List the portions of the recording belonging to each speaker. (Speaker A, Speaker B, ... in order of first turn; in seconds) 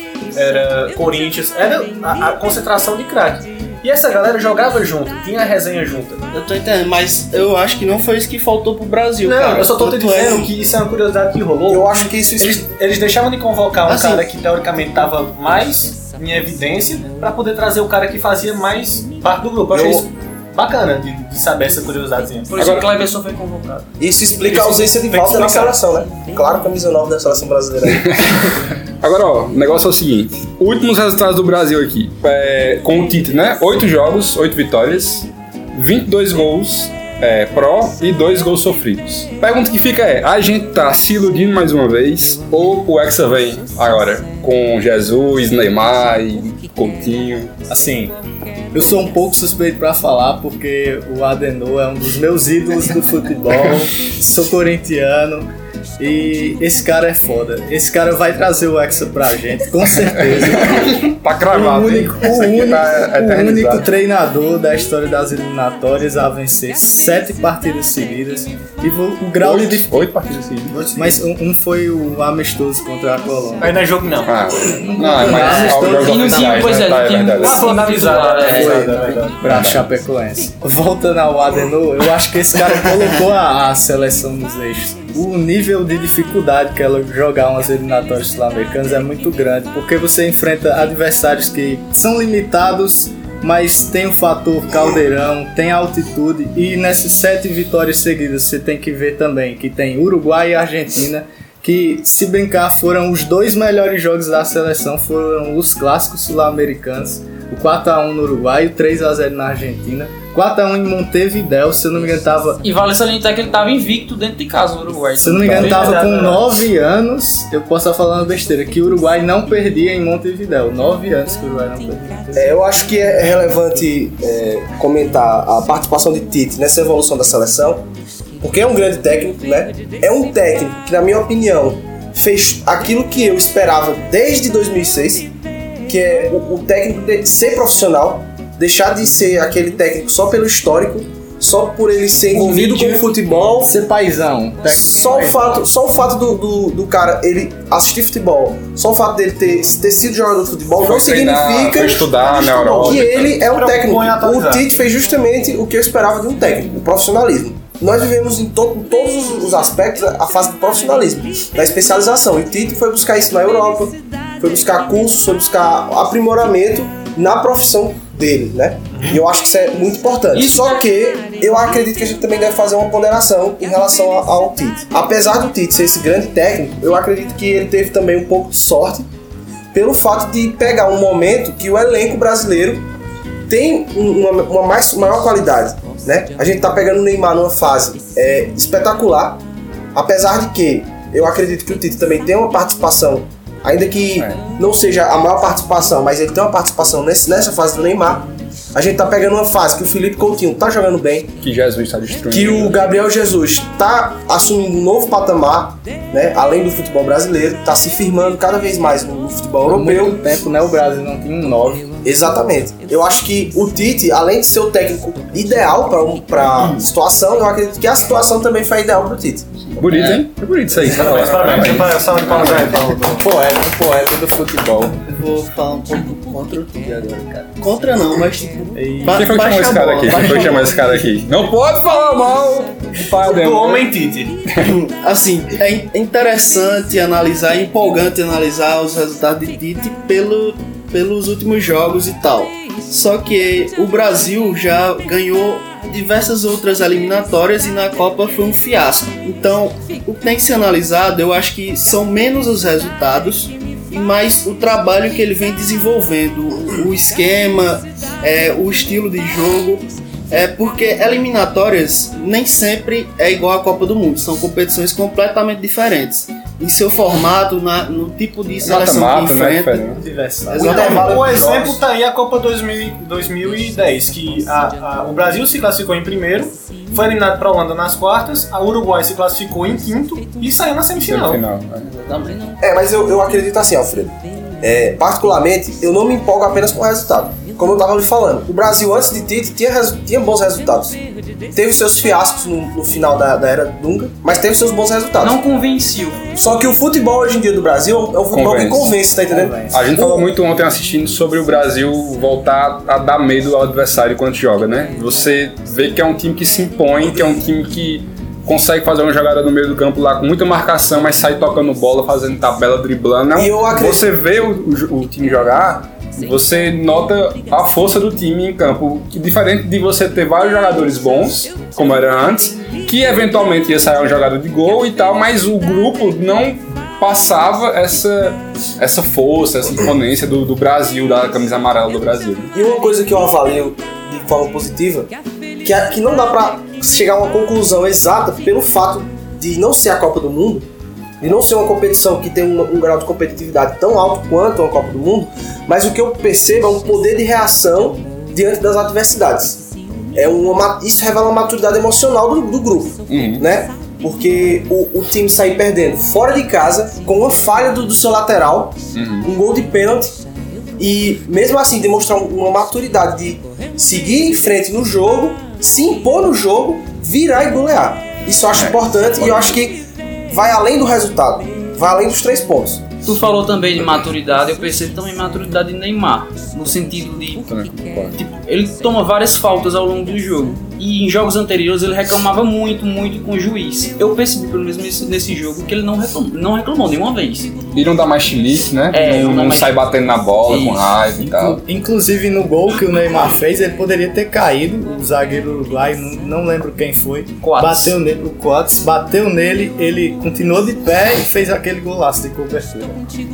Speaker A: 0.3-6.2, 9.2-22.5, 24.4-25.8, 73.6-74.3, 77.4-79.4, 115.6-116.5, 153.3-154.7, 168.9-169.2, 220.8-223.2, 233.0-234.4, 270.6-281.4
Speaker B: 6.3-10.5, 13.8-14.2, 225.0-230.8, 234.6-270.0
Speaker C: 11.7-12.7, 19.7-20.1, 24.0-28.1, 122.3-127.8, 128.4-135.3, 135.9-143.7, 144.7-179.1, 179.7-182.9, 183.5-189.4, 189.9-201.3, 202.3-210.2, 212.0-219.7, 270.5-271.8, 282.6-291.0, 291.5-295.4, 296.3-300.4, 313.3-314.1, 332.5-340.6, 341.2-349.6, 350.1-360.1, 360.8-372.8
Speaker D: 22.5-23.9, 75.7-79.0, 112.6-115.9, 170.3-170.8, 281.9-282.3, 295.2-296.2, 373.0-377.5, 378.1-387.7, 388.9-389.8, 390.4-391.1, 397.4-397.9
Speaker E: 22.6-22.9, 27.9-28.5, 29.0-47.5, 60.4-63.9, 69.4-70.9, 74.2-77.7, 79.4-79.8, 115.4-115.8, 150.8-153.3, 194.2-194.4, 201.4-202.8, 219.8-222.7, 229.1-233.9, 268.6-270.0, 281.0-281.9, 298.3-298.9, 299.7-332.5, 353.1-353.4, 358.9-359.3, 368.5-369.6, 377.4-378.1, 387.7-391.6
Speaker F: 47.7-48.1, 48.7-55.5, 56.0-69.9, 70.9-73.8, 74.7-76.7, 78.4-112.6, 115.2-122.6, 142.3-142.9, 143.7-145.6, 209.7-211.9, 223.1-225.0, 228.7-231.1, 269.9-271.1, 299.3-299.8, 391.3-403.0